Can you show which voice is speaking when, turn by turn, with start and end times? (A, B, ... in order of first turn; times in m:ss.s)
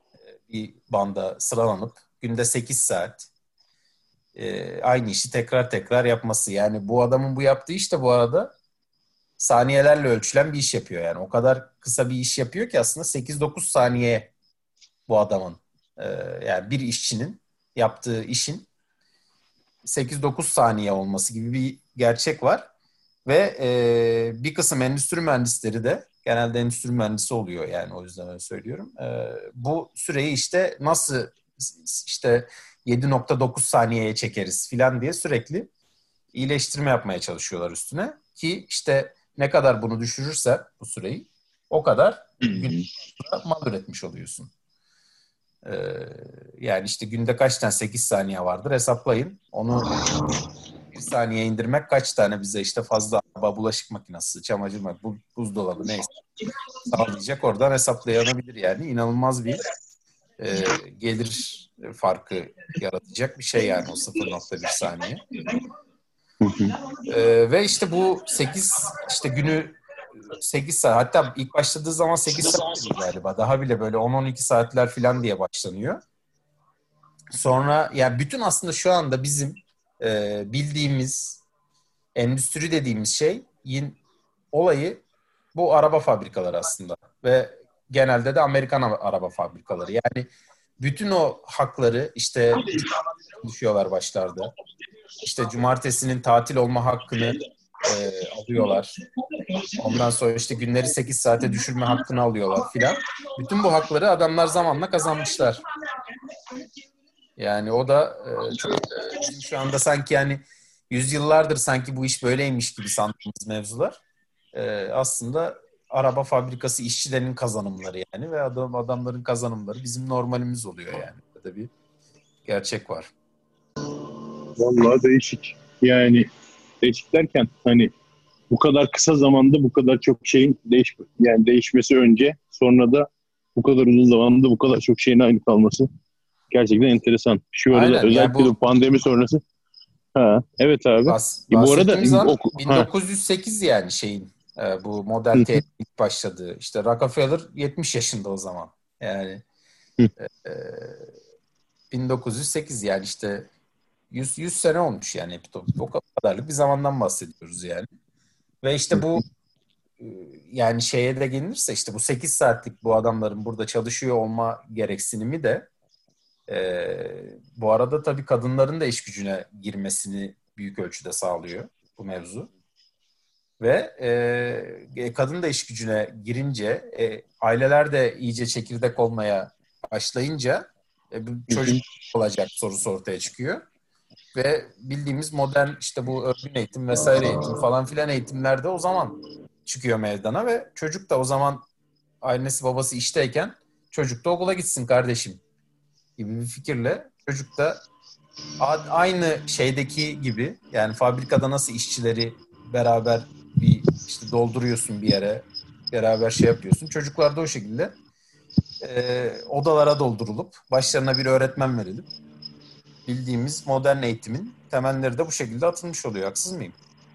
0:00.4-0:03.3 A
0:04.3-0:08.5 A
0:09.4-0:14.3 A
0:15.1-0:18.7 A
0:19.8-0:22.7 A
0:23.2-0:35.7 A
0:36.3-0:44.5 A
0:42.4-0:42.9 B
0:45.6-0:50.0 A
0:50.9-0:56.1 A
0:56.8-0:59.6 A
1:00.4-1:05.2 A
1:06.4-1:06.7 B
1:07.0-1:09.8 A
1:10.3-1:16.0 A
1:17.3-1:21.4 A
1:22.2-1:24.0 A
1:24.5-1:25.0 A
1:25.5-1:34.5 A
1:35.2-1:38.9 A
1:39.7-1:45.6 A
1:47.4-1:54.0 A
1:54.5-2:01.7 A
2:02.4-2:03.1 A
2:04.5-2:06.3 B
2:06.8-2:07.9 B
2:08.5-2:15.9 B
2:16.5-2:19.4 B
2:17.7-2:18.5 A
2:20.1-2:22.9 B
2:21.1-2:29.4 A
2:25.3-2:25.6 B
2:30.2-2:31.1 A
2:31.9-2:33.5 A
2:34.1-2:37.9 A
2:38.6-2:39.2 A
2:38.9-2:39.2 B
2:40.0-2:45.7 A
2:46.5-2:52.5 A
2:53.6-3:03.6 A
3:01.5-3:01.8 B
3:04.3-3:11.6 A
3:12.2-3:15.4 A
3:16.2-3:17.8 A
3:18.6-3:27.9 A
3:28.8-3:32.1 A
3:33.0-3:36.8 A